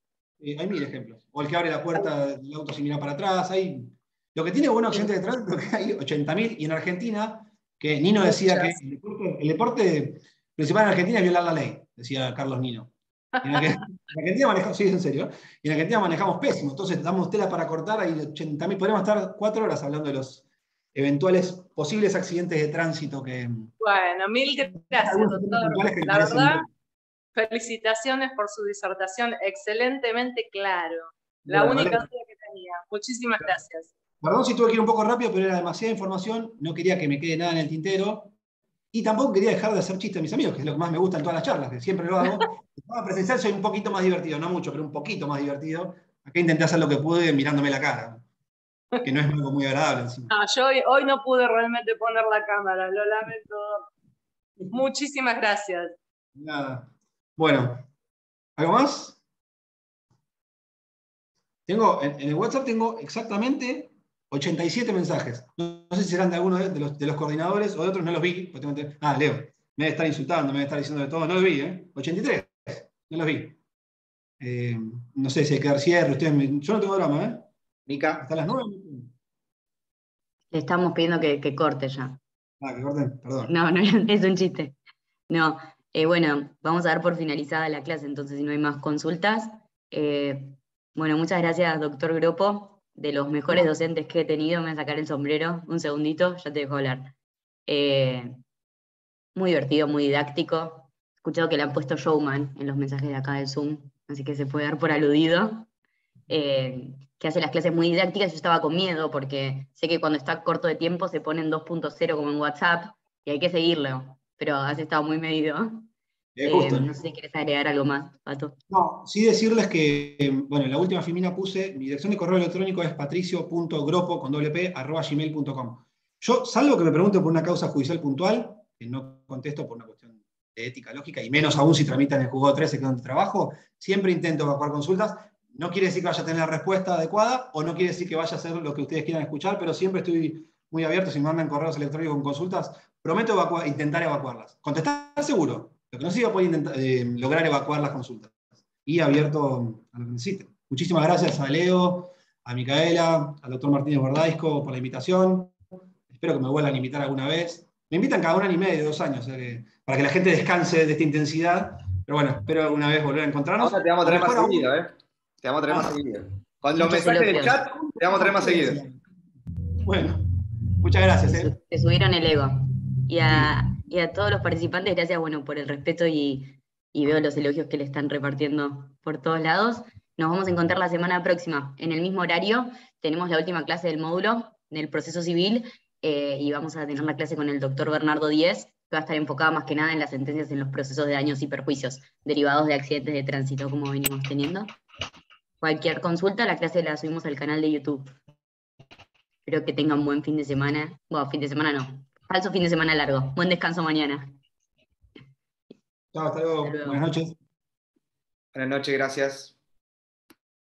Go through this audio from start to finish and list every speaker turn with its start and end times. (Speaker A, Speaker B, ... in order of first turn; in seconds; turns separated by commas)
Speaker A: 0.4-23.7, Speaker B: 8.2-8.8, Speaker B: 13.3-13.8, Speaker B: 23.8-26.6, Speaker A: 24.8-26.7, Speaker B: 27.3-33.9, Speaker A: 31.4-32.1, Speaker A: 34.2-38.3, Speaker A: 38.9-48.2, Speaker A: 49.0-50.3, Speaker B: 50.3-53.9, Speaker B: 54.7-55.9, Speaker A: 56.4-57.9, Speaker A: 58.6-59.2, Speaker A: 61.7-73.6, Speaker A: 74.4-77.5, Speaker C: 77.9-78.2, Speaker A: 78.1-79.1, Speaker D: 80.5-82.2, Speaker A: 82.6-83.5, Speaker D: 83.5-84.8, Speaker D: 85.3-97.1, Speaker D: 97.7-98.4, Speaker D: 99.3-105.7, Speaker D: 106.3-115.9, Speaker A: 116.3-117.0, Speaker D: 116.4-118.6, Speaker A: 118.7-155.5, Speaker A: 156.1-164.7, Speaker C: 163.6-168.8, Speaker D: 166.8-167.6, Speaker A: 166.8-169.0, Speaker A: 169.8-170.2, Speaker A: 170.8-171.5, Speaker D: 171.3-194.7, Speaker A: 173.2-173.5, Speaker D: 195.6-198.1, Speaker D: 199.4-204.3, Speaker A: 206.1-207.3, Speaker D: 206.6-207.0, Speaker C: 208.5-209.6